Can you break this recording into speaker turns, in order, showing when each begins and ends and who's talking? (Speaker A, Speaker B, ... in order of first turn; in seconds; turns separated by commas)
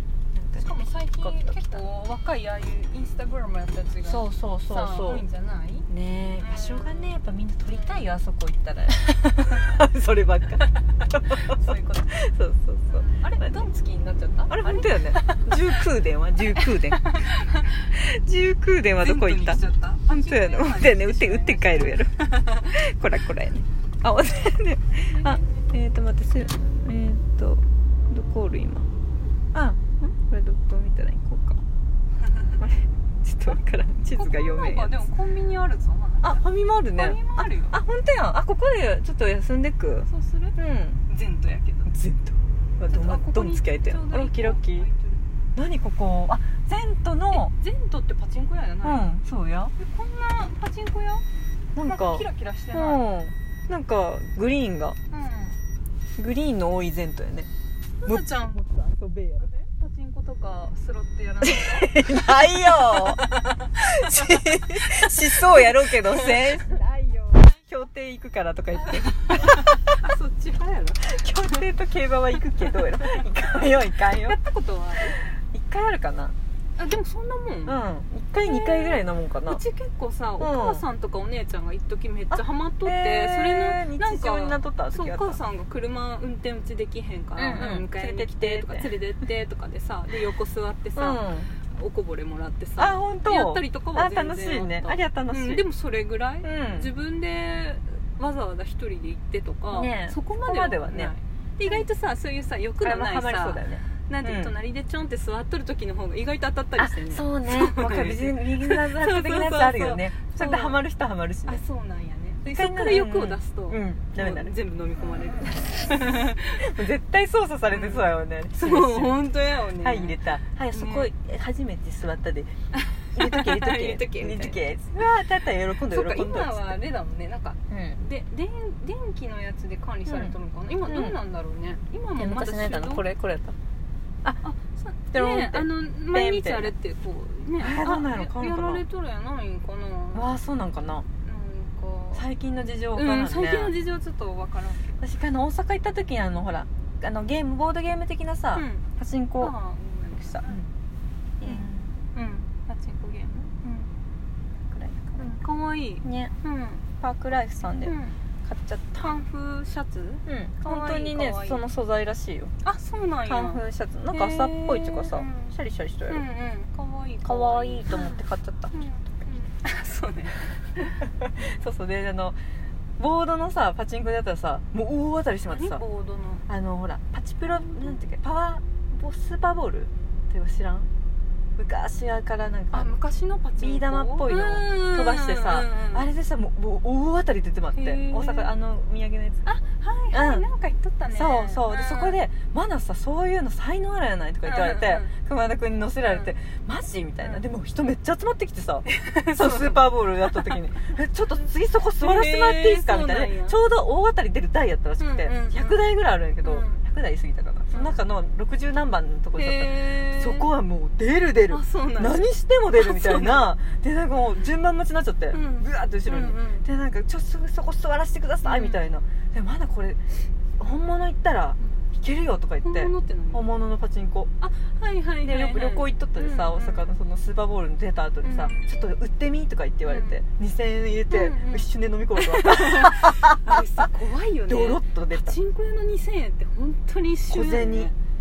Speaker A: 0.3-1.8, Speaker B: 0.6-5.9, Speaker A: 4.0-5.2, Speaker A: 5.9-13.6, Speaker B: 6.4-7.2, Speaker B: 7.7-8.1, Speaker B: 11.3-12.2, Speaker B: 12.9-15.6, Speaker A: 14.5-17.1, Speaker B: 16.6-17.9, Speaker A: 17.9-22.2, Speaker B: 19.0-22.7, Speaker A: 22.7-28.9, Speaker B: 24.9-25.7, Speaker A: 29.5-31.6, Speaker B: 32.3-32.6, Speaker A: 32.6-35.0, Speaker B: 34.1-36.4, Speaker A: 36.2-41.0, Speaker B: 36.9-37.8, Speaker B: 40.0-40.5, Speaker B: 41.1-41.9, Speaker A: 41.9-44.9, Speaker B: 42.9-45.2, Speaker A: 45.5-47.5, Speaker B: 47.3-49.1, Speaker A: 48.8-49.7, Speaker B: 49.8-51.2, Speaker A: 51.7-55.0, Speaker B: 51.8-53.0, Speaker B: 55.1-55.6, Speaker A: 56.2-57.5, Speaker B: 58.0-58.8, Speaker A: 58.0-59.5, Speaker B: 59.4-66.8, Speaker A: 61.4-63.2, Speaker A: 63.8-69.9, Speaker B: 69.1-71.6, Speaker A: 71.0-74.3, Speaker B: 73.1-73.5, Speaker B: 74.1-75.2, Speaker A: 75.2-76.3, Speaker B: 76.8-77.8, Speaker A: 77.7-79.6, Speaker B: 78.4-110.8, Speaker A: 80.4-80.8, Speaker A: 82.3-85.4, Speaker A: 87.4-88.9, Speaker A: 91.0-91.5, Speaker A: 92.8-95.6, Speaker A: 96.4-96.9, Speaker A: 99.7-101.1, Speaker A: 102.8-104.5, Speaker A: 106.8-111.6, Speaker B: 111.5-116.7, Speaker A: 112.4-114.5, Speaker A: 116.6-119.2, Speaker B: 117.7-120.2, Speaker A: 119.8-122.5, Speaker B: 120.7-121.1, Speaker B: 122.7-124.7, Speaker A: 123.1-126.8, Speaker B: 125.9-133.0, Speaker A: 127.7-128.0, Speaker A: 130.1-131.2, Speaker A: 132.2-133.6, Speaker B: 134.4-140.3, Speaker A: 135.1-136.7, Speaker A: 137.6-138.8, Speaker A: 140.1-141.1, Speaker B: 141.2-142.2, Speaker A: 142.1-143.7, Speaker B: 142.9-145.0, Speaker A: 145.0-149.5, Speaker B: 148.5-148.8, Speaker B: 149.4-150.6, Speaker A: 150.4-150.7, Speaker A: 151.4-151.9, Speaker B: 151.4-153.9, Speaker A: 154.7-155.4, Speaker B: 155.2-156.8, Speaker A: 156.0-156.3, Speaker A: 157.0-159.2, Speaker B: 157.8-158.2, Speaker B: 159.0-161.6, Speaker A: 160.2-162.5, Speaker B: 162.6-165.6, Speaker A: 163.2-166.2, Speaker B: 166.1-171.6, Speaker A: 167.2-168.7, Speaker A: 171.2-172.4, Speaker A: 173.0-175.8, Speaker B: 175.5-176.4, Speaker A: 176.5-180.9, Speaker B: 177.5-178.0, Speaker A: 181.6-182.9, Speaker B: 182.7-186.1, Speaker A: 183.6-189.4, Speaker B: 187.7-188.5, Speaker B: 189.4-192.2, Speaker A: 190.1-190.4, Speaker A: 191.1-220.0, Speaker B: 194.4-195.1, Speaker B: 198.9-200.6, Speaker B: 202.0-203.6, Speaker B: 205.0-205.9, Speaker B: 206.4-206.8, Speaker B: 207.7-208.0, Speaker B: 209.4-210.5, Speaker B: 211.5-213.5, Speaker B: 215.3-216.7, Speaker B: 218.4-218.8, Speaker A: 220.6-224.3, Speaker B: 222.6-223.4, Speaker B: 224.4-226.9, Speaker A: 225.2-233.6, Speaker B: 228.2-228.7, Speaker B: 229.8-230.2, Speaker B: 231.1-237.9, Speaker A: 234.5-235.4, Speaker A: 237.3-237.9